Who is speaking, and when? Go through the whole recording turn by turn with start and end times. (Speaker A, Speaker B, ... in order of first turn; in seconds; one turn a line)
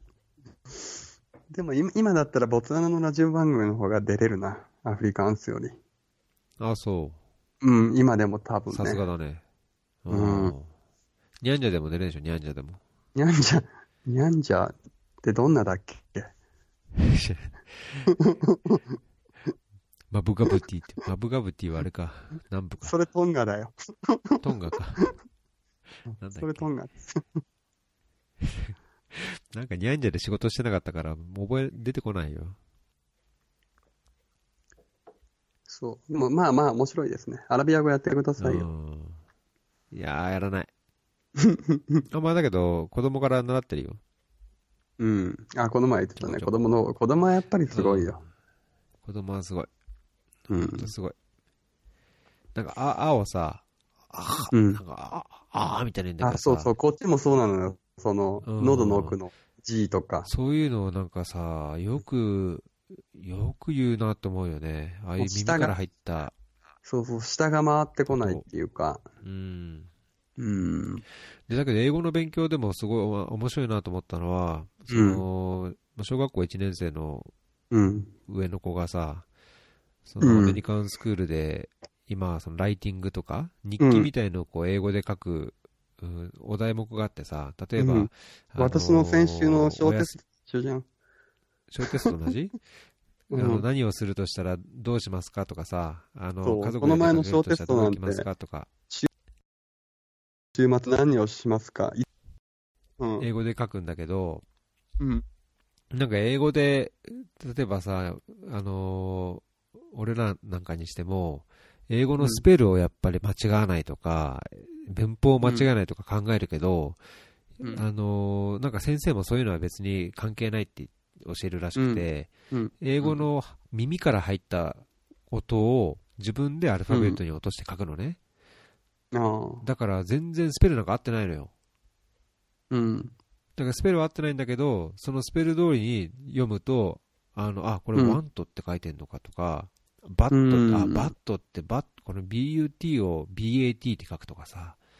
Speaker A: 1.5-5.8
Speaker B: 6.6-7.2
Speaker A: 7.6-9.0
Speaker B: 8.7-9.4
Speaker B: 10.0-10.7
Speaker A: 10.1-10.5
Speaker B: 11.4-12.8
Speaker A: 13.2-16.3
Speaker B: 16.9-18.1
Speaker A: 18.1-19.0
Speaker B: 20.1-22.9
Speaker A: 22.8-24.4
Speaker B: 24.4-25.0
Speaker A: 26.1-27.4
Speaker B: 26.2-26.7
Speaker B: 28.4-32.6
Speaker A: 35.7-38.7
Speaker B: 38.4-39.2
Speaker B: 39.9-40.7
Speaker A: 41.4-42.0
Speaker B: 42.1-44.0
Speaker A: 45.0-48.2
Speaker B: 46.1-46.5
Speaker B: 47.7-48.2
Speaker B: 49.0-49.7
Speaker A: 50.5-50.9
Speaker B: 50.5-51.1
Speaker B: 52.5-56.7
Speaker A: 54.5-54.8
Speaker A: 56.2-60.3
Speaker B: 58.4-59.2
Speaker B: 60.2-66.3
Speaker A: 65.2-65.7
Speaker A: 66.8-69.0
Speaker B: 68.1-68.4
Speaker B: 69.2-69.9
Speaker A: 70.4-71.0
Speaker B: 71.5-77.3
Speaker A: 74.9-75.2
Speaker A: 77.7-78.1
Speaker B: 78.3-79.2
Speaker B: 80.0-90.1
Speaker A: 80.2-80.6
Speaker A: 83.8-84.1
Speaker A: 87.8-90.8
Speaker B: 91.7-92.6
Speaker A: 93.3-93.6
Speaker B: 93.3-98.7
Speaker A: 96.4-98.3
Speaker A: 100.5-102.0
Speaker A: 103.0-103.2
Speaker B: 103.2-104.4
Speaker B: 105.9-117.0
Speaker A: 112.2-112.4
Speaker A: 115.4-115.7
Speaker B: 117.7-128.2
Speaker A: 121.7-123.2
Speaker A: 126.9-127.2
Speaker A: 129.1-129.6
Speaker B: 129.6-131.5
Speaker A: 132.7-133.1
Speaker B: 133.6-144.8
Speaker A: 137.9-138.2
Speaker A: 140.3-141.1